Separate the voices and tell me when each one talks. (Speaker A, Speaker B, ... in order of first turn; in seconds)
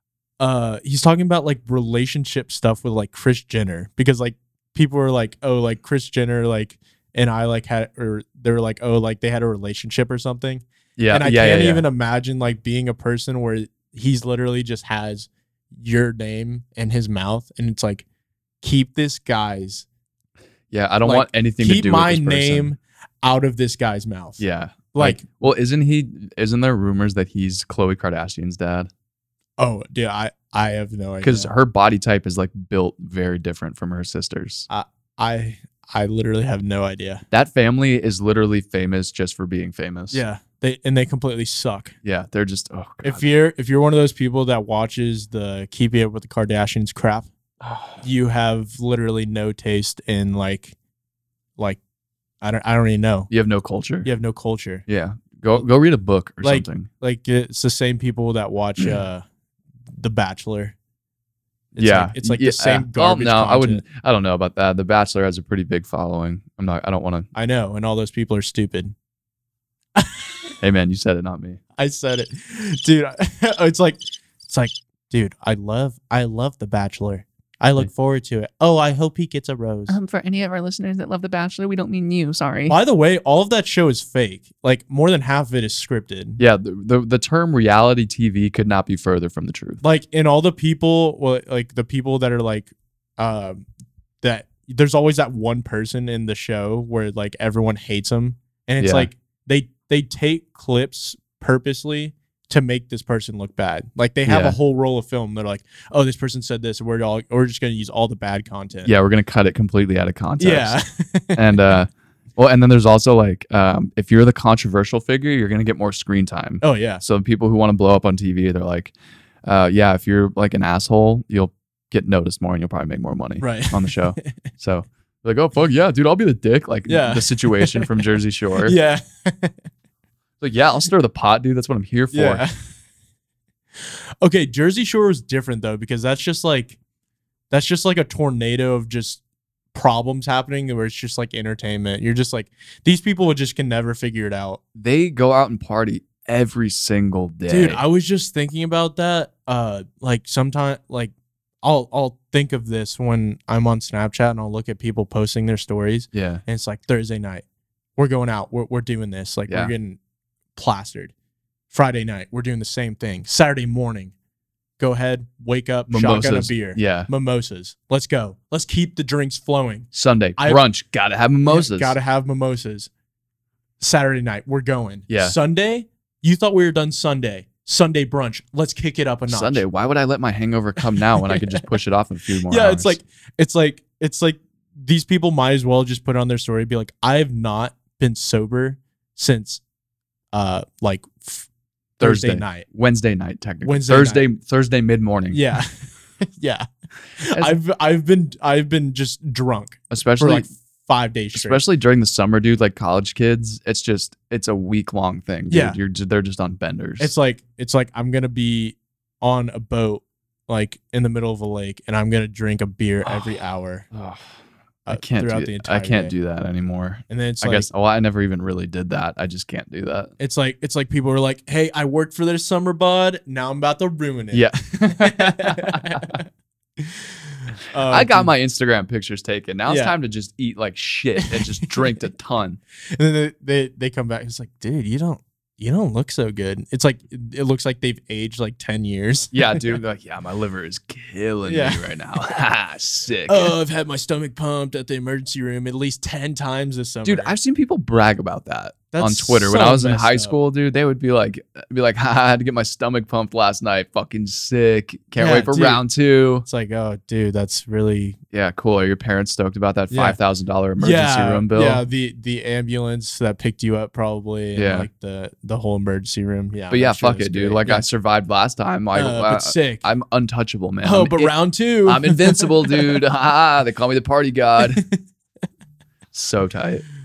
Speaker A: 0.4-18.1, 18.6-19.8, 21.0-24.4, 24.9-25.2, 29.6-31.5, 34.7-37.2, 40.1-41.9, 43.0-47.3, 48.0-50.8, 52.4-53.3, 54.0-54.8, 56.4-59.2, 59.9-60.7, 61.7-63.8, 67.3-68.9, 70.0-70.5, 71.8-80.0, 82.7-86.4, 89.8-93.7, 94.2-108.9, 110.4-111.6, 116.6-117.0, 123.4-124.2, 126.9-127.9, 128.6-129.6, 132.1-132.5, 133.8-136.8, 137.5-139.2, 139.7-144.6, 147.5-157.4, 158.0-160.0, 160.6-161.1, 161.7-164.1, 164.8-170.6, 171.4-172.9, 173.8-179.6, 180.9-181.6, 182.4-189.6, 190.3-191.5, 192.0-192.7, 193.6-194.2, 195.3-196.7, 197.2-201.6, 205.5-205.8, 207.0-213.9, 214.8-216.1, 217.1-217.7, 220.2-226.2, 226.8-228.3, 229.7-229.9, 231.2-231.5, 232.9-239.6, 241.4-241.8, 243.3-247.3, 248.9-250.4, 255.2-255.8, 256.4-258.2, 259.9-260.2, 260.8-267.8, 268.9-269.9, 270.8-273.0, 274.7-275.0
Speaker B: 11.0-11.9, 20.7-22.7, 24.4-28.9, 31.2-34.7, 37.3-40.2, 42.0-43.3, 47.6-48.0, 53.3-54.1, 54.9-56.9, 61.8-67.3, 70.6-71.6, 86.4-89.8, 98.8-99.1, 104.2-104.6, 108.8-110.8, 111.3-118.9, 119.4-128.8, 130.4-132.5, 144.7-147.8, 156.1-156.4, 159.5-159.7, 165.9-167.1, 169.9-171.9, 175.1-175.3, 179.3-183.0, 192.0-195.4, 197.2-197.5, 199.9-200.5, 201.3-207.1, 213.9-214.2, 214.9-220.1, 224.3-226.2, 227.9-232.6, 239.3-243.5, 247.0-256.4, 258.3-261.8, 264.5-264.9, 266.7-274.9, 276.1-276.9
Speaker C: 79.9-82.8